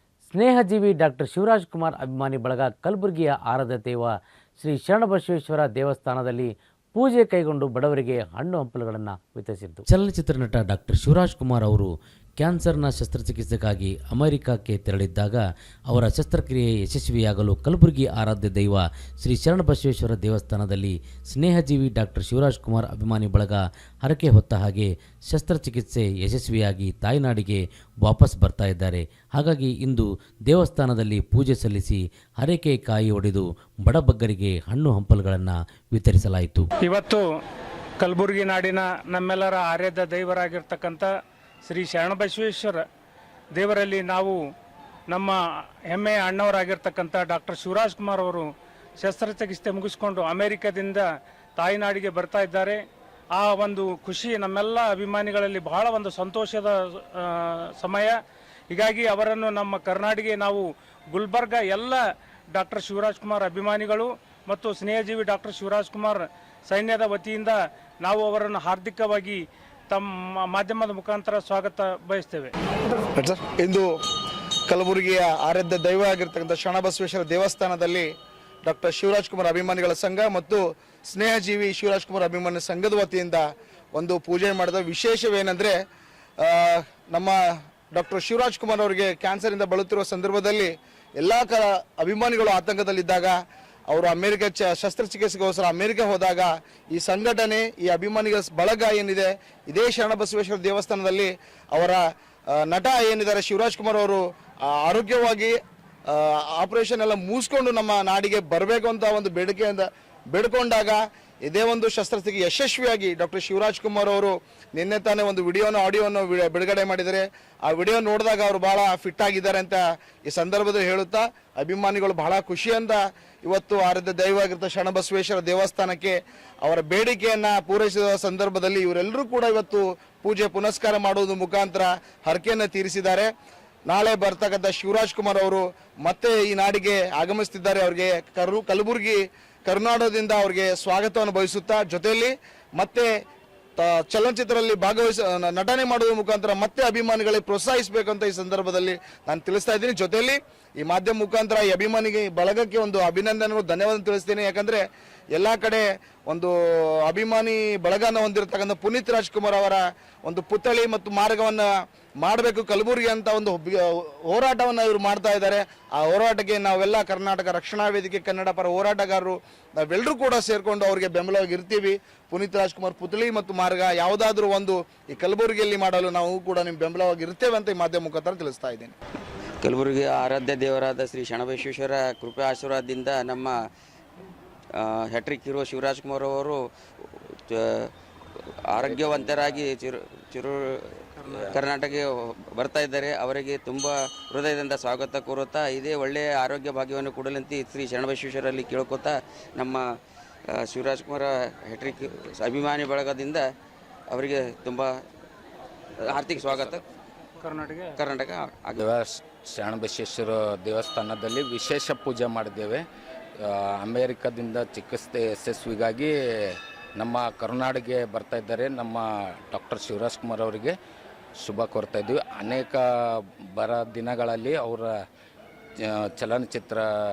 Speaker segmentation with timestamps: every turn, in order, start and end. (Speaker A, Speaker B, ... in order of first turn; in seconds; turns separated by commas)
Speaker A: 0.3-36.7, Speaker B: 36.8-37.2, Speaker B: 38.0-41.1, Speaker B: 41.6-42.8, Speaker B: 43.5-44.4, Speaker B: 45.1-45.4, Speaker B: 45.9-48.5, Speaker B: 49.0-51.0, Speaker B: 51.6-52.8, Speaker B: 53.4-58.1, Speaker B: 58.7-62.0, Speaker B: 62.5-72.5, Speaker C: 73.1-73.9, Speaker C: 74.7-78.1, Speaker C: 78.6-85.8, Speaker C: 86.4-87.3, Speaker C: 87.9-93.4, Speaker C: 93.9-104.2, Speaker C: 104.8-105.5, Speaker C: 106.1-133.3, Speaker C: 133.9-143.1, Speaker C: 143.8-154.8, Speaker C: 155.3-156.5, Speaker C: 157.0-161.7, Speaker C: 162.2-178.9, Speaker D: 179.6-183.5, Speaker D: 184.7-186.6, Speaker D: 187.2-187.9, Speaker D: 188.7-199.8, Speaker E: 188.8-189.6, Speaker E: 191.3-191.6, Speaker D: 200.5-203.5, Speaker D: 204.1-204.9, Speaker D: 206.1-206.8, Speaker E: 206.2-206.8, Speaker B: 207.4-207.9, Speaker D: 208.0-208.8, Speaker E: 208.8-212.8, Speaker E: 213.4-220.7, Speaker E: 221.4-222.8, Speaker E: 223.5-224.9, Speaker E: 225.8-226.8